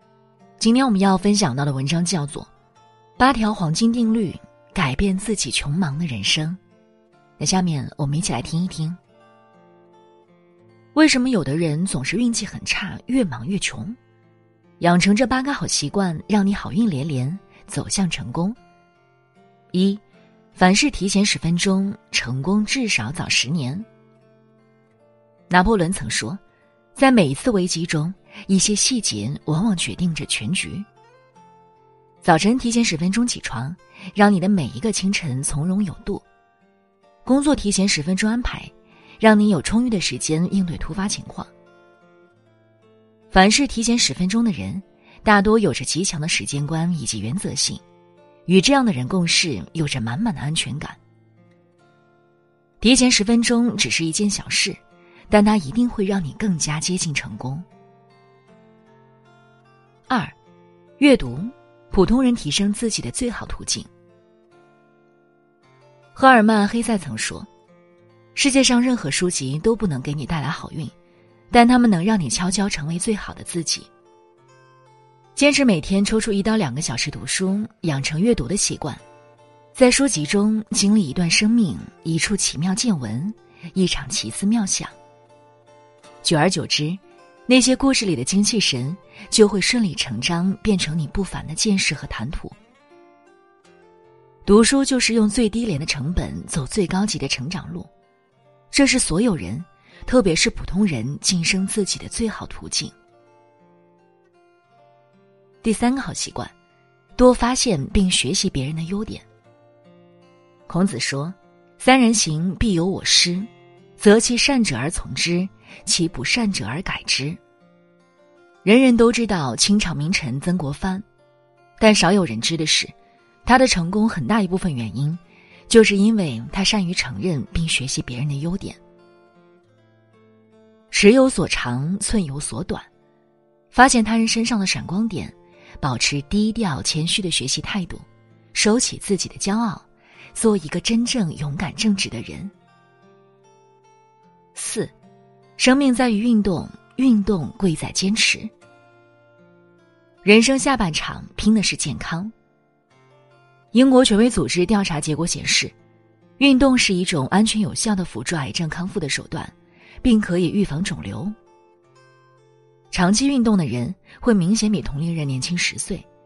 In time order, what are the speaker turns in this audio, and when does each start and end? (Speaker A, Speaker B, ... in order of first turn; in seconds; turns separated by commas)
Speaker A: 0.6-2.5, Speaker A: 3.2-6.6, Speaker A: 7.4-9.0, Speaker A: 10.9-14.0, Speaker A: 14.8-18.6, Speaker A: 19.7-20.0, Speaker A: 20.6-23.9, Speaker A: 25.5-26.4, Speaker A: 27.0-30.9, Speaker A: 32.2-36.2, Speaker A: 37.2-41.5, Speaker A: 43.3-47.8, Speaker A: 48.5-51.0, Speaker A: 52.8-57.7, Speaker A: 60.1-60.4, Speaker A: 61.0-63.9, Speaker A: 66.2-67.5, Speaker A: 68.3-70.9, Speaker A: 71.5-73.9, Speaker A: 75.4-79.0, Speaker A: 79.8-85.0, Speaker A: 86.2-92.6, Speaker A: 94.5-97.9, Speaker A: 98.7-102.9, Speaker A: 105.6-106.5, Speaker A: 107.2-109.2, Speaker A: 110.7-117.4, Speaker A: 118.6-121.0, Speaker A: 121.8-122.9, Speaker A: 123.5-128.8, Speaker A: 130.9-132.9, Speaker A: 133.7-142.5, Speaker A: 144.6-144.9, Speaker A: 145.6-148.5, Speaker A: 150.2-152.3, Speaker A: 153.7-155.7, Speaker A: 156.4-161.3, Speaker A: 162.9-166.1